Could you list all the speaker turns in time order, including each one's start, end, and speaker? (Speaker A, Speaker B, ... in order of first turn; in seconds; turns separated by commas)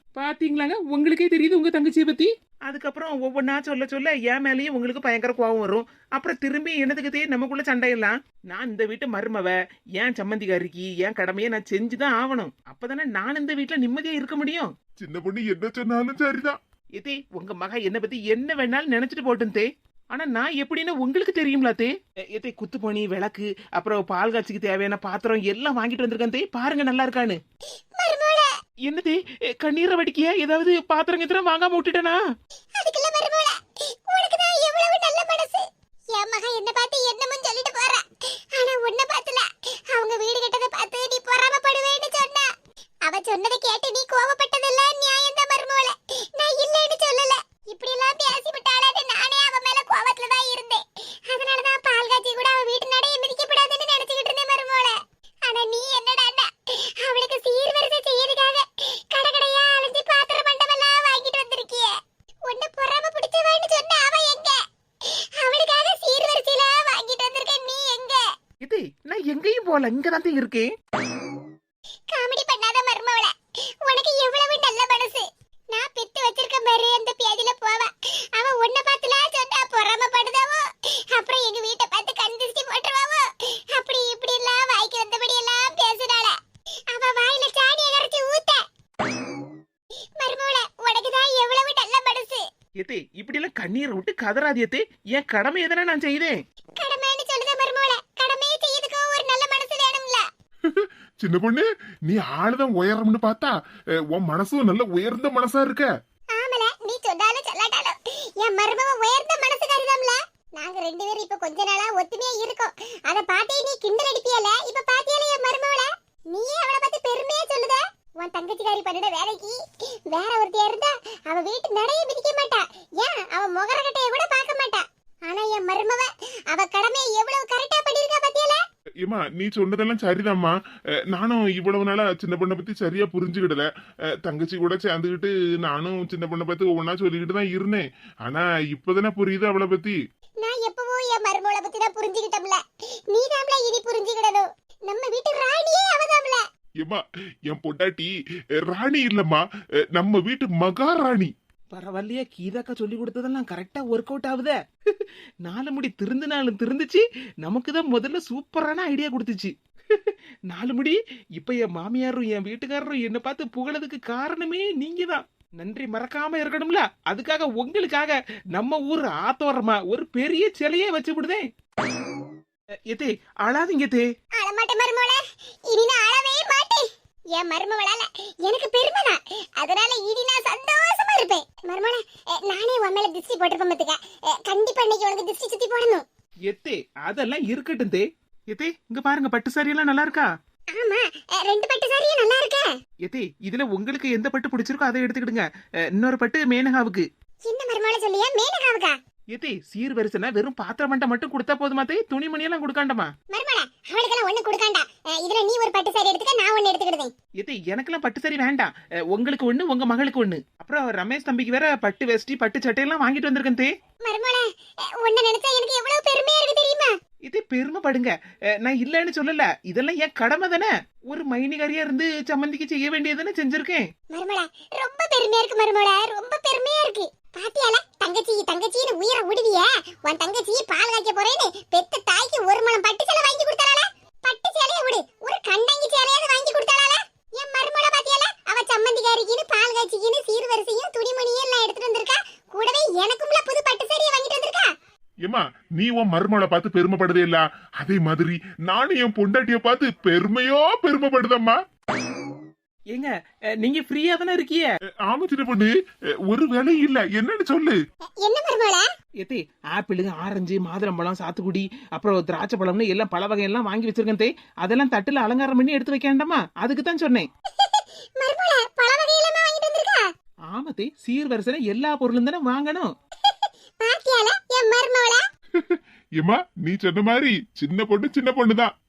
Speaker A: 0.2-14.7, Speaker B: 15.0-16.6, Speaker A: 17.0-27.4, Speaker C: 28.0-28.5, Speaker A: 28.9-32.2, Speaker C: 32.8-42.5, Speaker C: 43.0-61.9, Speaker C: 62.5-68.2, Speaker A: 68.6-70.7, Speaker C: 72.1-86.4, Speaker C: 86.9-88.6, Speaker C: 90.2-92.5, Speaker A: 92.8-96.4, Speaker C: 96.8-100.2, Speaker B: 100.7-103.5, Speaker B: 104.1-105.9, Speaker C: 106.3-128.6, Speaker B: 129.0-130.5, Speaker B: 131.1-133.7, Speaker B: 134.2-140.0, Speaker C: 140.4-146.4, Speaker B: 146.8-149.4, Speaker B: 150.0-151.3, Speaker A: 151.7-171.5, Speaker A: 172.9-174.1, Speaker C: 174.4-186.1, Speaker A: 186.5-190.3, Speaker C: 190.8-192.7, Speaker A: 193.1-197.1, Speaker C: 197.4-198.9, Speaker A: 199.3-203.1, Speaker C: 203.3-207.1, Speaker A: 207.4-213.7, Speaker C: 214.1-214.5, Speaker C: 215.0-216.9, Speaker A: 217.3-218.1, Speaker A: 218.6-223.9, Speaker C: 224.1-244.7, Speaker B: 245.2-251.6, Speaker A: 253.6-254.7, Speaker B: 255.1-255.7, Speaker B: 256.3-257.8, Speaker C: 258.2-258.9, Speaker A: 259.2-267.3, Speaker C: 267.6-270.1, Speaker A: 270.5-272.9, Speaker C: 273.8-275.2, Speaker B: 275.6-278.7